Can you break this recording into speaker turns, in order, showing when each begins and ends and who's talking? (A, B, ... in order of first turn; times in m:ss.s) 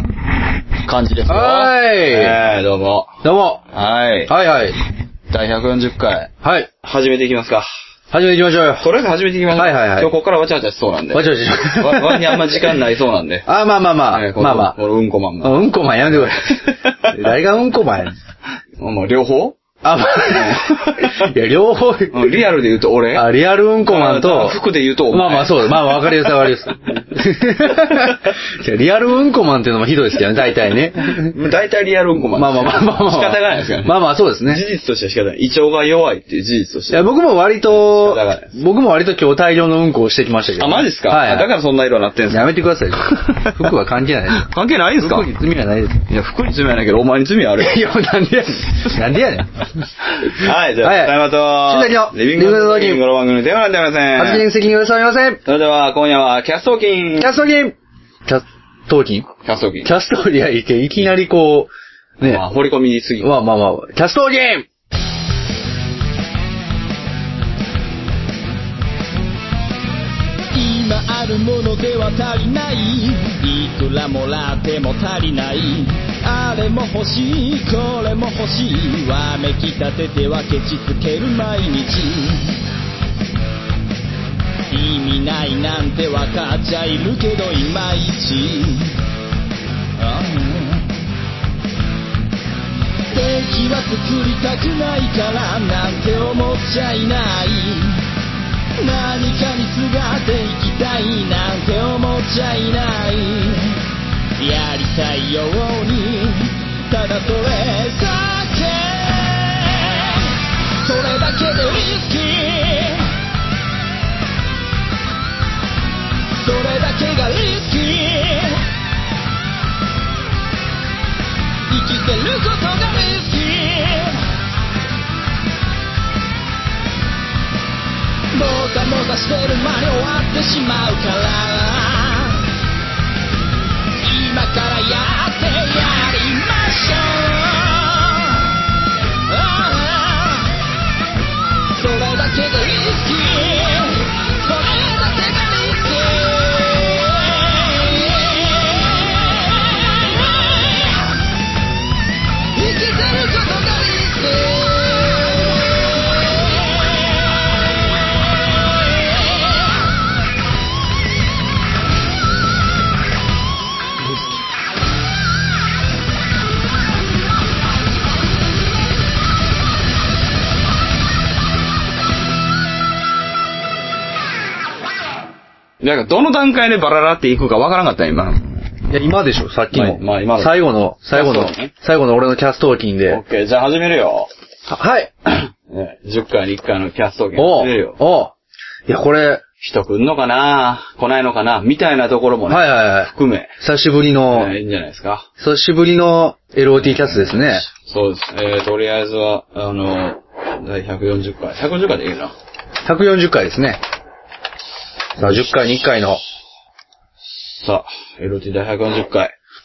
0:00.8-0:04.3 A
0:01.3-0:02.4 B
0:03.2-0:03.6 B
0:04.3-0:04.8 B
0:05.3-0:06.3 A
0:06.4-0:06.7 B
0:06.8-0:07.7 A
0:08.1-0:08.9 B
0:08.8-0:13.5 A
0:09.6-0:10.1 B
0:11.1-0:12.7 B
0:13.5-0:14.8 B
0:14.1-0:17.2 A
0:15.4-0:16.4 B
0:17.1-0:18.2 B
0:18.8-0:19.6 A
0:19.8-0:22.3 B
0:20.3-0:21.3 A
0:22.1-0:23.3 A
0:23.2-0:24.6 B
0:23.8-0:26.8 A
0:25.1-0:31.4 B
0:31.2-0:37.1 A
0:32.4-0:34.6 B
0:36.9-0:41.5 B
0:37.7-0:38.5 A
0:40.6-0:42.5 A
0:42.3-0:44.5 B
0:43.3-0:43.6 A
0:44.3-0:45.3 A
0:45.0-0:46.0 B
0:46.1-0:47.8 A
0:47.6-0:49.5 B
0:50.2-0:54.5 A
0:50.8-0:53.0 B
0:54.2-0:55.4 B
0:55.4-0:57.4 A
0:57.2-0:57.8 B
0:58.3-0:59.3 B
0:59.4-0:59.9 A
0:59.8-1:02.4 B
1:02.2-1:03.3 A
1:03.2-1:04.7 B
1:10.5-1:22.6 C
1:24.7-1:29.0 C
1:30.0-1:30.9 C
1:33.1-1:38.0 C
1:38.8-1:43.8 C
1:44.4-1:53.1 C
1:56.4-1:58.6 C
2:01.7-2:04.2 C
2:08.3-2:12.5 C
2:14.0-2:18.5 C
2:19.3-2:20.5 C
2:21.8-2:31.1 C
2:32.5-2:35.6 C
2:36.4-2:37.0 C
2:55.8-2:58.6 A
2:58.9-3:03.2 B
2:59.7-3:01.7 A
3:03.1-3:04.3 A
3:04.7-3:05.1 B
3:05.3-3:08.0 A
3:07.4-3:08.3 B
3:08.9-3:09.4 B
3:09.6-3:13.5 A
3:12.5-3:14.5 B
3:14.3-3:15.3 A
3:15.4-3:17.6 B
3:16.8-3:22.3 A
3:22.8-3:23.8 B
3:25.2-3:26.2 B
3:27.6-3:29.3 A